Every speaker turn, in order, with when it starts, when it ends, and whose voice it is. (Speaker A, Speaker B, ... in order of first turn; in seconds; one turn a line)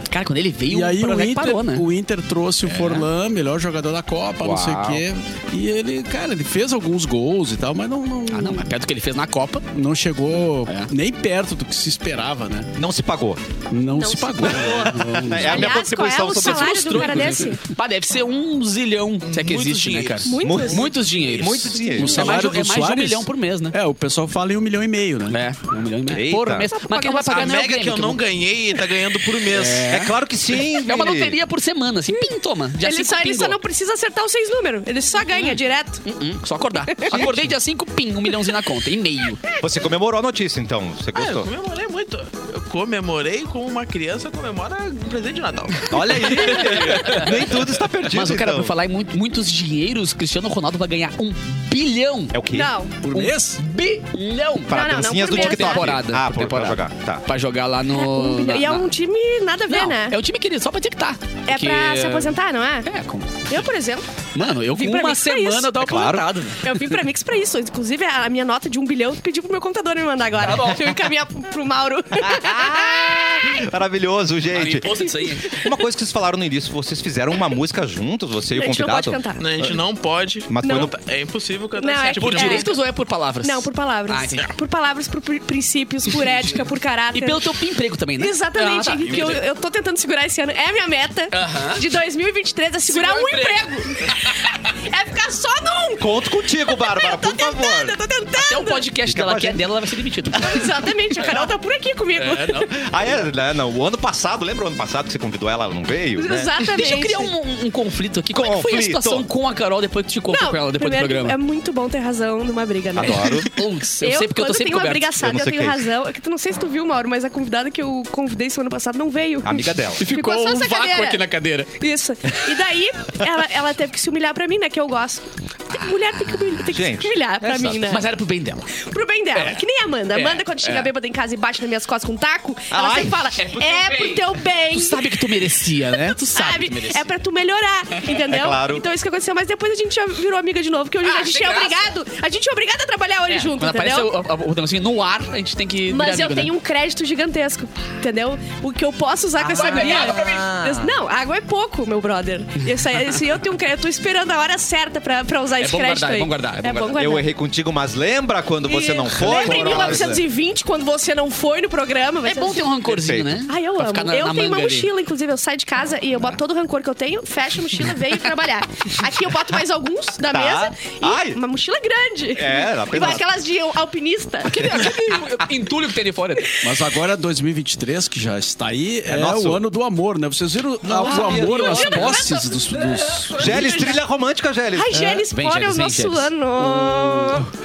Speaker A: 0.1-1.8
Speaker B: 0.7-8.7
Speaker A: 2.6-3.1
Speaker C: 4.4-5.0
Speaker A: 8.3-9.7
Speaker B: 9.7-12.7
Speaker C: 12.8-13.4
Speaker B: 13.7-15.5
Speaker D: 13.9-17.6
Speaker C: 14.5-17.4
Speaker A: 16.3-23.8
Speaker E: 19.2-20.4
Speaker D: 20.3-20.9
Speaker C: 20.4-22.3
Speaker B: 21.9-25.4
Speaker A: 25.3-28.2
Speaker C: 26.1-26.7
Speaker D: 26.7-27.5
Speaker E: 27.3-29.9
Speaker A: 29.5-30.1
Speaker C: 29.9-31.4
Speaker A: 30.8-33.6
Speaker D: 32.8-36.0
Speaker A: 35.3-39.4
Speaker C: 37.1-37.6
Speaker C: 39.5-41.5
Speaker E: 41.1-47.0
Speaker C: 45.9-48.7
Speaker A: 46.6-47.3
Speaker A: 48.0-52.4
Speaker C: 52.3-52.7
Speaker D: 52.5-52.9
Speaker B: 53.0-53.6
Speaker A: 53.1-58.9
Speaker C: 54.7-57.2
Speaker D: 54.7-56.0
Speaker D: 57.9-60.2
Speaker A: 59.7-63.7
Speaker D: 61.5-62.9
Speaker D: 63.5-64.0
Speaker A: 64.3-67.0
Speaker D: 64.6-65.9
Speaker C: 65.8-66.5
Speaker D: 66.6-73.3
Speaker A: 70.4-70.9
Speaker C: 72.2-79.8
Speaker A: 74.5-75.6
Speaker D: 78.5-79.5
Speaker E: 79.4-82.7
Speaker C: 80.5-80.9
Speaker D: 80.6-80.9
Speaker D: 81.8-82.7
Speaker A: 82.1-84.5
Speaker D: 83.4-87.4
Speaker A: 87.1-89.4
Speaker D: 88.2-98.8
Speaker A: 91.3-91.8
Speaker A: 92.9-94.1
Speaker C: 96.0-98.0
Speaker A: 98.4-101.5
Speaker C: 99.1-99.6
Speaker D: 100.4-102.7
Speaker A: 102.2-102.7
Speaker C: 102.7-106.5
Speaker D: 106.2-107.3
Speaker A: 106.6-111.4
Speaker C: 108.3-109.3
Speaker D: 110.3-121.2
Speaker C: 112.9-113.5
Speaker A: 113.5-115.3
Speaker C: 115.2-115.8
Speaker C: 119.4-120.0
Speaker A: 120.0-121.8
Speaker D: 121.8-128.1
Speaker A: 125.8-126.7
Speaker C: 126.7-127.8
Speaker A: 127.5-128.7
Speaker D: 128.8-135.1
Speaker A: 129.3-130.9
Speaker C: 132.7-133.2
Speaker A: 133.3-137.1
Speaker D: 136.0-144.1
Speaker C: 138.3-138.8
Speaker A: 141.0-141.9
Speaker A: 143.3-146.5
Speaker D: 145.9-157.3
Speaker A: 149.4-150.5
Speaker C: 149.4-151.0
Speaker A: 155.6-157.0
Speaker C: 156.9-160.2
Speaker D: 158.7-162.7
Speaker A: 159.3-160.1
Speaker A: 162.2-164.9
Speaker C: 162.8-163.4
Speaker D: 163.5-174.6
Speaker C: 170.2-171.4
Speaker C: 172.3-173.2
Speaker A: 174.4-176.5
Speaker C: 174.5-175.5
Speaker B: 176.6-183.7
Speaker C: 179.1-179.6
Speaker C: 180.8-182.1
Speaker A: 181.0-182.4
Speaker D: 181.0-182.5
Speaker C: 183.3-185.2
Speaker D: 183.4-184.0
Speaker D: 184.7-187.5
Speaker A: 184.9-186.3
Speaker B: 186.8-187.4